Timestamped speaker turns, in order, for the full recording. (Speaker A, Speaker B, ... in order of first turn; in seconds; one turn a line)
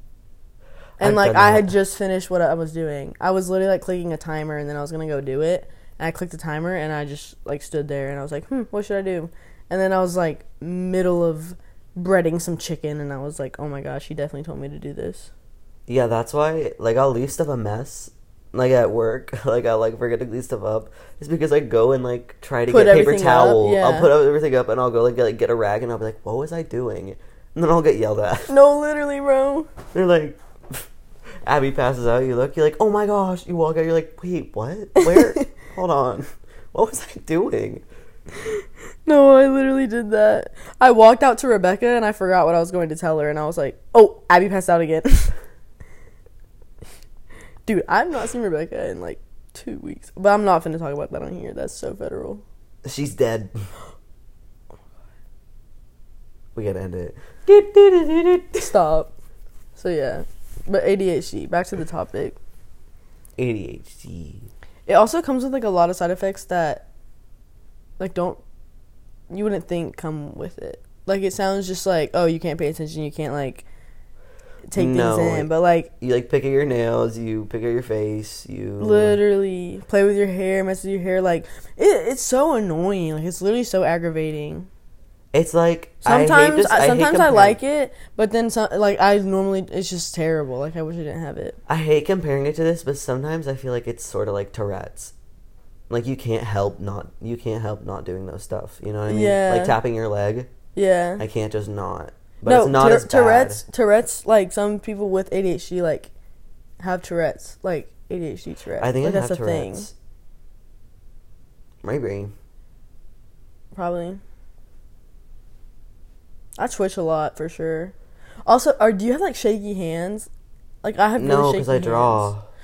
Speaker A: 1.0-1.7
Speaker B: 1.0-15.3
Speaker A: 15.9-28.5
Speaker B: 22.7-24.1
Speaker B: 28.5-29.7
Speaker A: 29.9-30.8
Speaker A: 31.4-37.8
Speaker B: 35.0-35.5
Speaker B: 38.4-45.3
Speaker B: 47.6-52.4
Speaker A: 52.8-53.5
Speaker A: 56.5-58.7
Speaker B: 58.6-59.1
Speaker B: 59.7-62.4
Speaker A: 63.4-64.5
Speaker B: 64.9-66.8
Speaker B: 68.0-68.4
Speaker B: 69.3-73.6
Speaker B: 74.7-75.9
Speaker A: 74.7-79.2
Speaker B: 78.8-84.7
Speaker A: 85.3-87.6
Speaker B: 86.0-91.6
Speaker A: 91.7-95.1
Speaker A: 95.9-100.5
Speaker B: 99.1-99.8
Speaker B: 100.7-101.2
Speaker A: 101.2-103.6
Speaker B: 102.5-106.1
Speaker B: 106.8-109.9
Speaker A: 108.8-109.9
Speaker A: 111.8-112.3
Speaker B: 113.7-114.2
Speaker B: 116.6-117.9
Speaker B: 118.5-120.3
Speaker B: 120.8-122.3
Speaker A: 121.2-122.5